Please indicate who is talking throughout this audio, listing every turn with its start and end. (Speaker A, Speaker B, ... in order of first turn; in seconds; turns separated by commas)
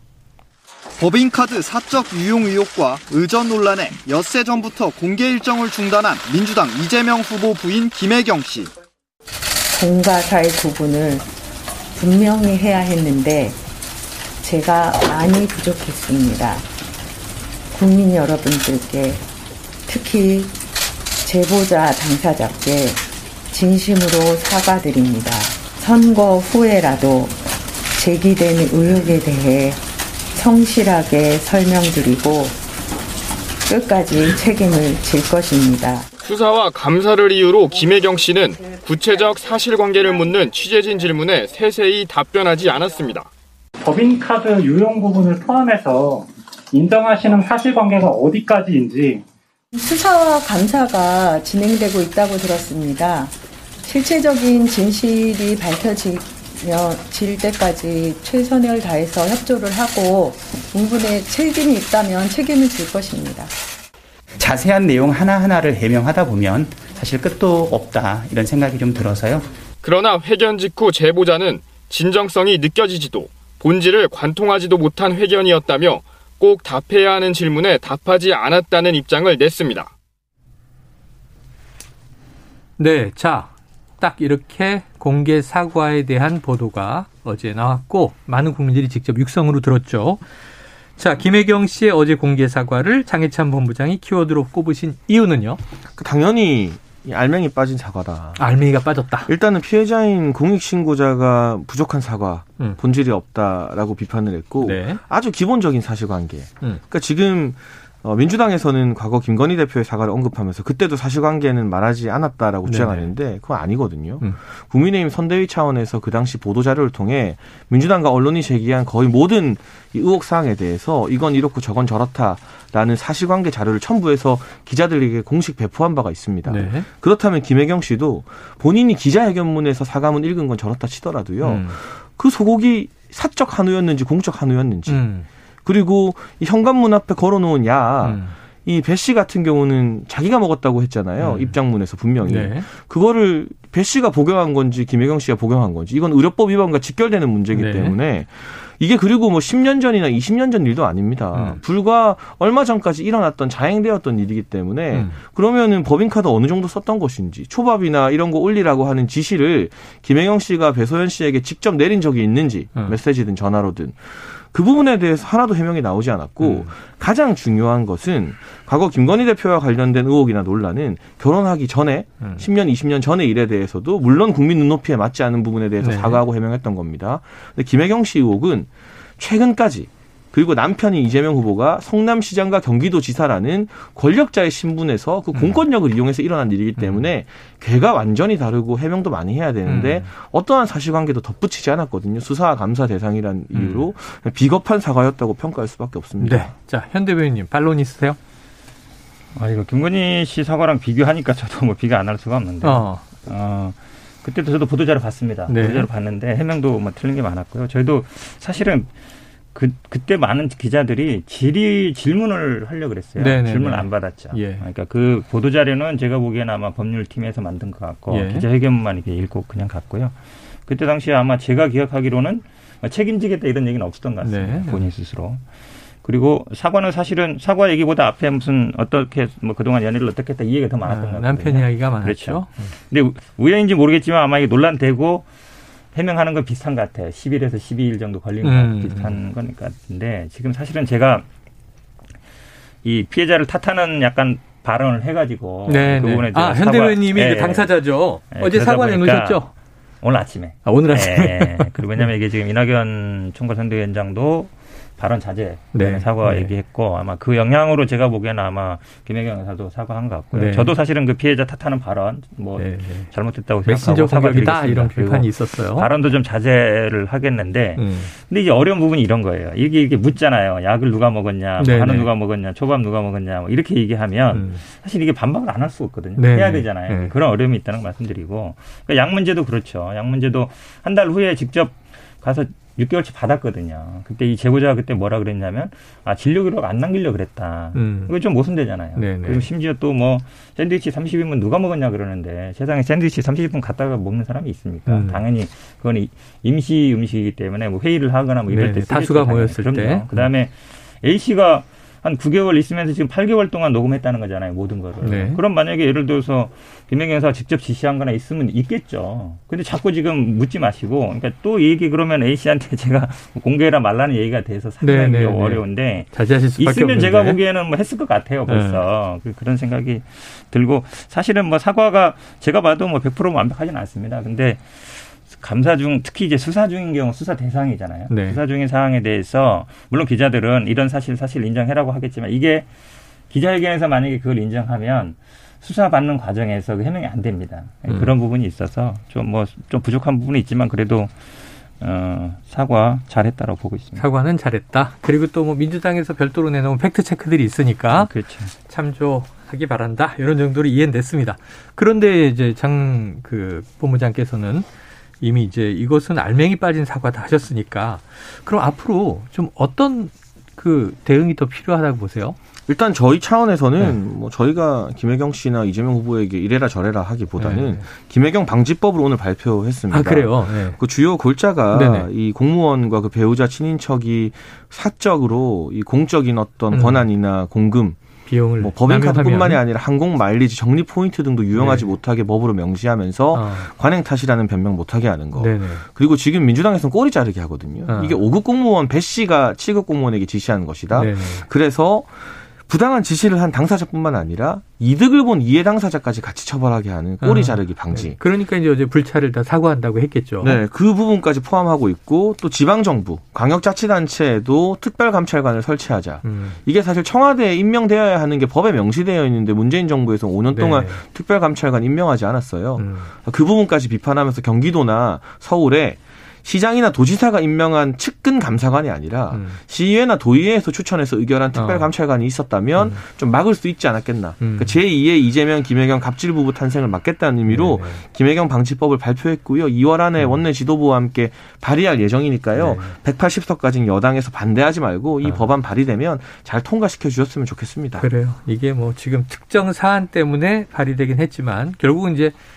Speaker A: 1.0-8.7, Speaker B: 9.7-11.2, Speaker B: 11.9-13.6, Speaker B: 14.4-16.7, Speaker B: 17.7-19.2, Speaker B: 19.9-20.6, Speaker B: 21.2-27.4, Speaker B: 27.9-29.8, Speaker B: 30.3-32.6, Speaker B: 33.7-36.1, Speaker C: 36.2-43.3, Speaker D: 43.8-49.2, Speaker B: 49.7-63.5, Speaker E: 64.4-69.5, Speaker C: 69.8-79.9, Speaker F: 82.8-90.2, Speaker F: 91.0-95.6, Speaker G: 96.0-98.4, Speaker F: 98.4-99.3, Speaker G: 99.3-135.1, Speaker F: 104.6-105.0, Speaker F: 112.7-113.1, Speaker F: 126.5-126.9, Speaker F: 131.4-131.8, Speaker F: 134.9-135.3, Speaker G: 135.7-196.5, Speaker F: 138.0-138.3, Speaker F: 141.2-141.6, Speaker F: 142.2-142.7, Speaker F: 147.5-147.9, Speaker F: 151.3-151.6, Speaker F: 154.9-155.2, Speaker F: 166.4-166.7, Speaker F: 175.8-176.2, Speaker F: 185.3-185.6, Speaker F: 186.8-187.1, Speaker F: 189.7-190.1, Speaker F: 193.5-193.8, Speaker F: 196.2-198.2, Speaker H: 199.3-208.9, Speaker F: 202.6-203.0, Speaker F: 205.5-205.9, Speaker H: 209.6-220.1, Speaker F: 213.2-214.6, Speaker F: 218.1-218.4, Speaker H: 220.7-225.4, Speaker F: 224.2-224.9, Speaker H: 226.0-235.2, Speaker F: 230.8-232.7, Speaker H: 235.9-241.2, Speaker F: 238.4-239.2, Speaker H: 242.8-247.8, Speaker F: 245.7-249.5, Speaker H: 248.3-249.5, Speaker H: 250.0-332.7, Speaker F: 250.7-252.1, Speaker F: 255.7-256.5, Speaker F: 260.3-260.7, Speaker F: 262.6-263.1, Speaker F: 263.7-265.9, Speaker F: 267.8-268.1, Speaker F: 271.6-272.1, Speaker F: 274.3-274.6, Speaker F: 276.2-277.1, Speaker F: 287.7-288.1, Speaker F: 288.9-289.4, Speaker F: 294.9-295.2, Speaker F: 298.5-300.3, Speaker F: 305.0-305.4, Speaker F: 314.8-317.4, Speaker F: 318.5-318.8, Speaker F: 328.1-328.4, Speaker H: 333.3-341.1, Speaker H: 341.8-344.0, Speaker F: 344.0-348.1, Speaker H: 347.9-348.5, Speaker F: 348.7-354.7, Speaker F: 355.2-362.4, Speaker G: 362.7-378.0, Speaker F: 367.4-367.8, Speaker F: 369.9-370.8, Speaker F: 371.7-372.1, Speaker F: 376.7-377.1, Speaker F: 378.3-379.6, Speaker G: 378.6-398.2, Speaker F: 381.6-381.9, Speaker F: 383.3-383.7, Speaker F: 385.4-385.8, Speaker F: 387.9-388.2, Speaker F: 390.9-391.5, Speaker F: 397.2-400.6, Speaker G: 400.4-438.1, Speaker F: 406.2-406.6, Speaker F: 410.5-411.0, Speaker F: 412.8-413.1, Speaker F: 419.3-419.6, Speaker F: 421.5-421.9, Speaker F: 424.4-424.8, Speaker F: 427.5-428.0, Speaker F: 432.6-432.9, Speaker F: 438.0-442.4